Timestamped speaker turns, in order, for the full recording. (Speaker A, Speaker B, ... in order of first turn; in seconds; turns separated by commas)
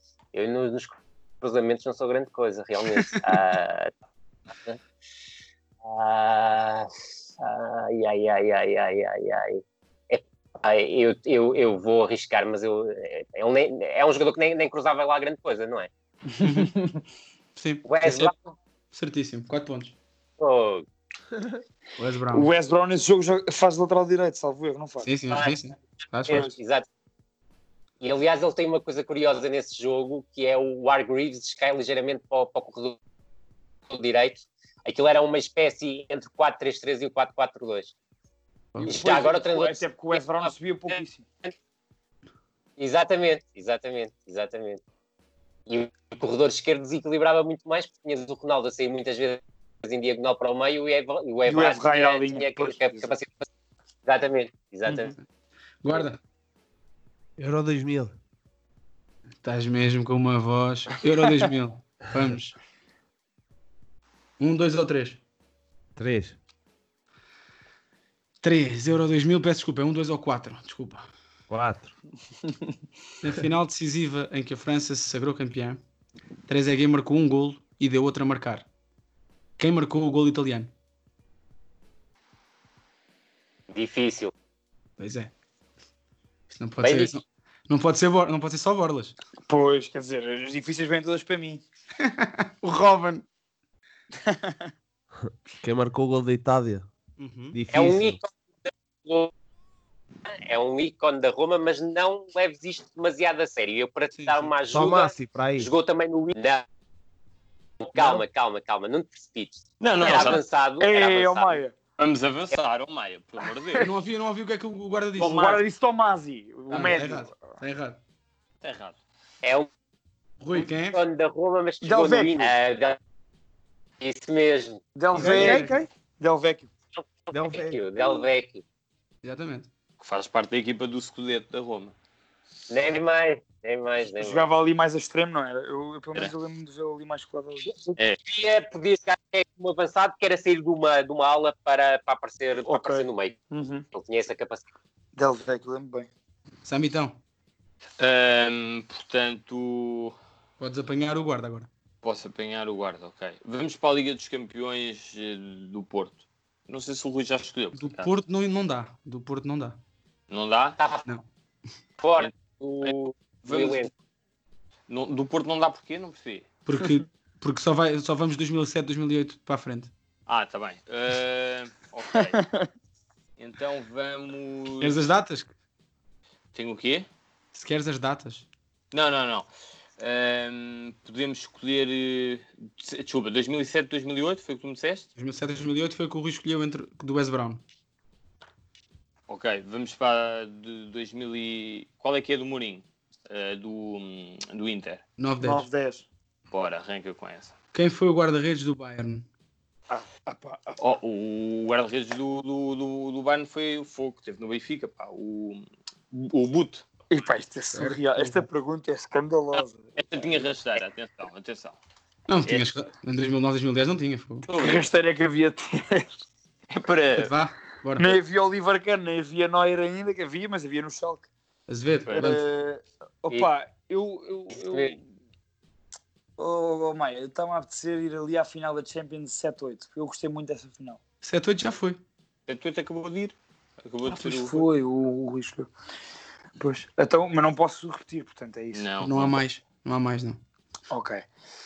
Speaker A: 0.3-3.9, Speaker A: 5.8-6.9, Speaker A: 7.4-15.9, Speaker B: 16.4-17.0, Speaker C: 16.4-16.7, Speaker C: 17.6-18.3, Speaker A: 17.8-18.5, Speaker C: 18.9-19.9, Speaker A: 20.4-20.8, Speaker C: 22.0-22.5, Speaker B: 22.3-25.1, Speaker C: 25.0-26.5, Speaker A: 25.3-25.6, Speaker A: 26.3-26.9, Speaker A: 28.0-33.0, Speaker A: 33.9-37.9, Speaker B: 38.8-41.2, Speaker A: 38.8-40.5, Speaker A: 42.8-44.8, Speaker A: 45.7-53.5, Speaker B: 51.5-53.1, Speaker A: 54.0-55.1, Speaker C: 54.9-55.2, Speaker C: 55.8-56.2, Speaker D: 57.4-58.1, Speaker C: 59.4-62.5, Speaker C: 64.4-65.2, Speaker D: 66.0-66.4, Speaker C: 68.4-71.0, Speaker D: 71.5-71.9, Speaker C: 73.2-75.8, Speaker C: 76.5-78.7, Speaker C: 79.6-80.7, Speaker A: 83.7-84.3, Speaker C: 85.0-85.3, Speaker C: 86.5-89.1, Speaker A: 86.8-87.2, Speaker B: 89.5-91.6, Speaker C: 92.0-93.2, Speaker B: 94.2-94.6, Speaker D: 95.2-96.8, Speaker C: 97.2-97.6, Speaker D: 97.5-98.2, Speaker A: 97.7-99.3, Speaker A: 100.4-106.6, Speaker C: 104.1-104.5, Speaker D: 104.7-105.7, Speaker A: 107.8-111.6, Speaker B: 108.0-108.2, Speaker E: 109.8-110.4, Speaker B: 110.1-111.7, Speaker E: 112.0-113.9, Speaker C: 113.8-115.6, Speaker B: 115.2-117.6, Speaker E: 115.2-115.6, Speaker C: 116.7-118.0, Speaker E: 118.6-119.0, Speaker A: 119.4-119.7, Speaker C: 120.4-121.0, Speaker A: 120.9-123.0, Speaker B: 121.8-122.5, Speaker A: 124.0-124.8, Speaker B: 125.0-126.7, Speaker C: 125.1-125.8, Speaker D: 125.1-125.9, Speaker A: 127.0-128.6, Speaker D: 127.3-127.8, Speaker C: 129.2-129.7, Speaker E: 130.0-131.9, Speaker A: 132.7-134.4, Speaker B: 134.1-137.8, Speaker A: 138.2-143.4, Speaker B: 142.7-143.8, Speaker A: 143.9-144.6, Speaker B: 145.1-146.1, Speaker C: 146.6-147.2, Speaker E: 148.0-150.1, Speaker C: 150.6-151.7, Speaker E: 152.0-158.1, Speaker C: 157.7-159.8, Speaker E: 160.3-160.8, Speaker A: 160.8-161.1, Speaker A: 162.0-163.9, Speaker E: 163.4-163.9, Speaker E: 164.9-166.5, Speaker C: 166.7-169.9, Speaker E: 170.3-172.4, Speaker B: 172.3-172.7, Speaker E: 173.4-175.0, Speaker C: 174.8-175.5, Speaker E: 176.5-177.1, Speaker C: 177.5-178.4, Speaker E: 178.9-179.5, Speaker E: 180.0-185.1, Speaker C: 185.2-187.6, Speaker E: 189.3-195.0, Speaker C: 195.2-195.7, Speaker B: 195.4-196.1, Speaker E: 196.5-197.5, Speaker C: 197.7-199.2, Speaker B: 199.9-200.8, Speaker E: 200.8-206.8, Speaker B: 207.1-210.4, Speaker C: 207.7-208.4, Speaker E: 210.0-211.8, Speaker C: 212.3-214.5, Speaker E: 214.5-214.9, Speaker B: 214.6-216.1, Speaker E: 216.7-217.3, Speaker C: 217.2-218.2, Speaker B: 218.0-221.3, Speaker C: 221.7-222.4, Speaker B: 222.1-225.0, Speaker A: 224.6-224.9, Speaker B: 226.4-231.0, Speaker C: 231.2-232.0, Speaker E: 232.5-234.7, Speaker B: 234.0-235.7, Speaker B: 236.6-238.8, Speaker E: 238.7-239.4, Speaker C: 239.0-240.4, Speaker B: 240.9-241.2